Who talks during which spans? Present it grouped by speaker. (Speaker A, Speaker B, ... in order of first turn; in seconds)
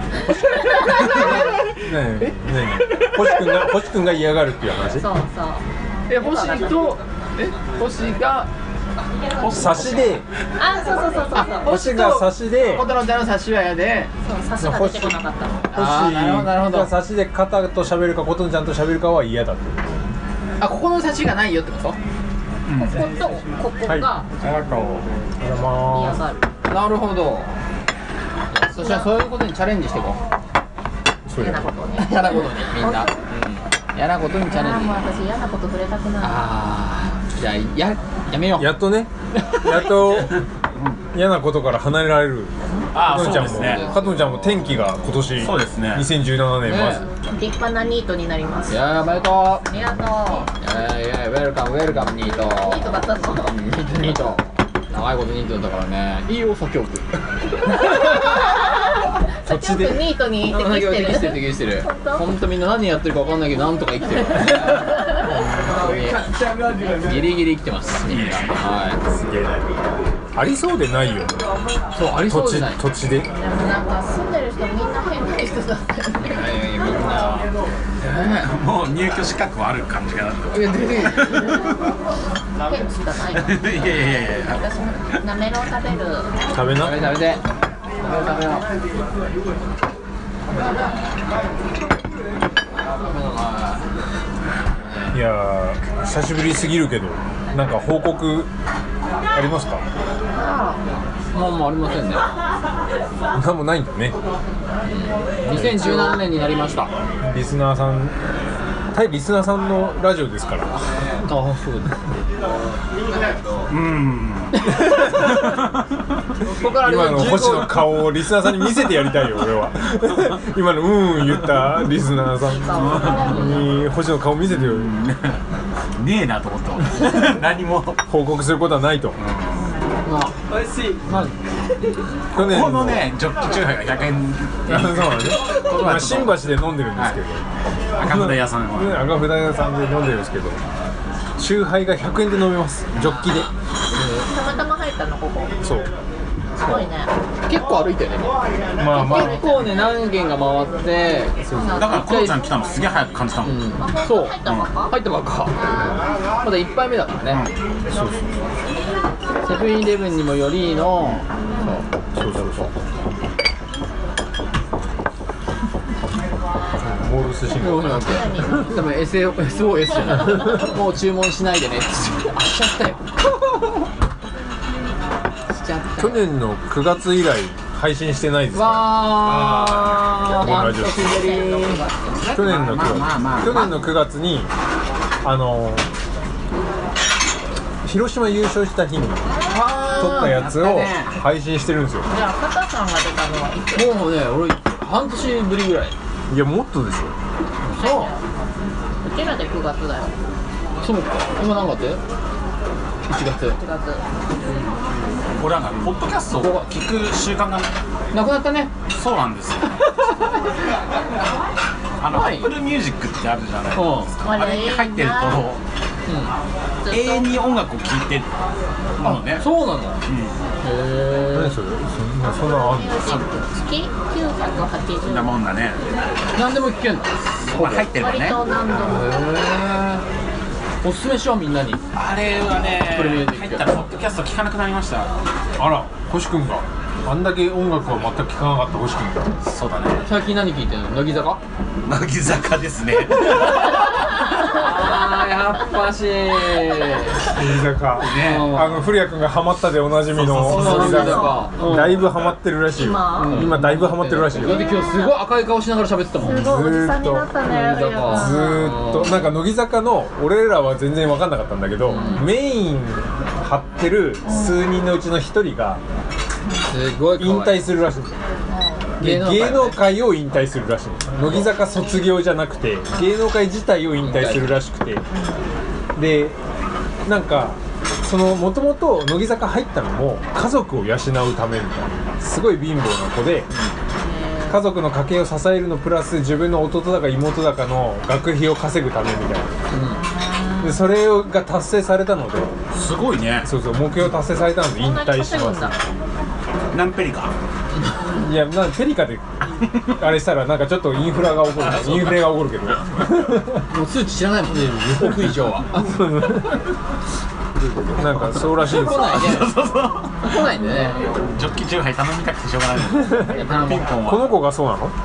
Speaker A: 0.3-1.5, 5.0-6.9, 10.6-11.8, 14.2-15.7, 22.8-24.3, 25.8-26.5, 28.8-29.1, 31.4-33.2, 34.5-36.6, 47.3-48.8, 49.7-50.5, 52.6-53.6, 57.9-58.6, 59.4-62.2, 73.2-76.5, 82.7-86.3, 100.3-100.8, 122.3-123.7, 143.9-145.6, 146.6-147.1, 148.8-150.0, 151.4-152.1, 153.8-154.9, 155.6-155.9, 161.5-161.8, 167.9-168.9, 179.5-182.2, 189.3-190.2, 192.1-194.1, 197.8-198.2, 199.0-200.2, 203.5-204.0, 214.2-215.5, 216.8-217.3, 222.5-225.4, 227.9-229.2, 250.6-251.5, 252.7-253.4, 254.4-255.2, 256.2-258.8, 264.3-264.6, 268.5-268.9, 275.1-275.4, 284.0-284.6, 290.0-290.8, 294.8-295.8, 310.3-310.5
Speaker B: 0.3-3.5, 6.1-8.5, 11.3-14.1, 15.7-16.9, 20.6-22.0, 26.7-27.5, 28.5-30.2, 32.0-35.0, 36.2-38.8, 39.3-39.9, 43.5-44.6, 46.6-47.1, 48.7-49.7, 50.6-57.1, 60.5-69.0, 71.9-72.8, 76.2-77.5, 80.5-81.6, 86.8-87.4, 88.0-88.7, 90.6-90.8, 93.0-93.9, 94.8-95.2, 101.3-102.3, 104.8-106.9, 111.2-112.0, 116.4-117.9, 130.1-130.3, 143.9-144.3, 146.6-146.9, 147.5-148.3, 149.0-152.4, 153.4-155.8, 156.4-157.5, 159.4-161.8, 167.6-173.8, 175.5-176.2, 178.5-181.9, 189.5-190.7, 193.7-195.9, 197.6-198.1, 200.8-202.0, 203.1-203.6, 206.4-206.7, 208.1-208.7, 209.8-210.3, 212.1-212.5, 213.7-214.1, 219.0-220.0, 220.6-221.6, 226.3-227.9, 228.8-230.1, 230.8-231.8, 232.9-233.7, 240.0-241.4, 244.4-247.3, 248.0-249.0, 250.2-252.1, 253.2-256.5, 257.4-259.3, 261.9-262.3, 266.7-267.6, 269.0-269.9, 274.0-274.5, 289.7-290.0, 303.7-306.0, 308.3-309.6, 310.2-311.1, 313.2-313.9
Speaker C: 1.8-5.1, 9.5-10.2, 11.6-12.9, 14.6-15.2, 15.7-20.0, 25.4-26.2, 31.3-31.7, 38.6-40.4, 41.1-47.1, 59.4-60.1, 69.1-69.6, 70.3-71.5, 72.2-73.3, 86.5-87.0, 95.1-98.5, 99.3-99.8, 103.3-104.2, 105.4-106.2, 107.2-108.2, 108.9-110.8, 116.7-124.9, 128.1-129.2, 132.3-133.1, 134.7-137.4, 138.0-140.6, 141.4-143.5, 145.6-145.9, 148.8-149.4, 157.9-158.3, 162.2-162.7, 166.8-168.3, 176.0-179.1, 180.4-181.1, 182.3-184.5, 185.2-185.9, 187.8-192.1, 196.3-197.2, 221.3-223.1, 235.6-239.3, 247.3-254.7, 256.2-257.3, 258.1-265.8, 267.2-268.1, 269.0-275.1, 275.9-276.4, 277.1-283.5, 284.5-289.6, 290.6-292.6, 293.4-295.8, 298.1-303.6, 305.8-306.6, 307.6-309.3, 314.0-314.9
Speaker D: 9.4-10.1, 22.7-23.0, 24.4-25.1, 40.0-41.0, 42.9-43.9, 45.4-46.1, 68.1-68.5, 78.0-81.5, 83.3-85.2, 113.7-115.8, 122.8-123.5, 124.5-125.4, 126.0-128.0, 129.2-129.8, 132.3-137.2, 138.0-139.1, 142.9-143.4, 151.7-153.8, 154.4-154.7, 182.2-183.8, 190.2-191.2, 205.3-207.7, 208.9-209.8, 212.0-215.6, 216.9-218.3, 219.0-219.5, 220.1-220.4, 225.1-225.8, 227.4-228.5, 231.9-235.1, 239.4-240.1, 241.8-243.8, 248.0-248.6, 250.1-250.9, 292.7-293.5, 296.7-297.3, 301.6-302.5, 308.9-314.4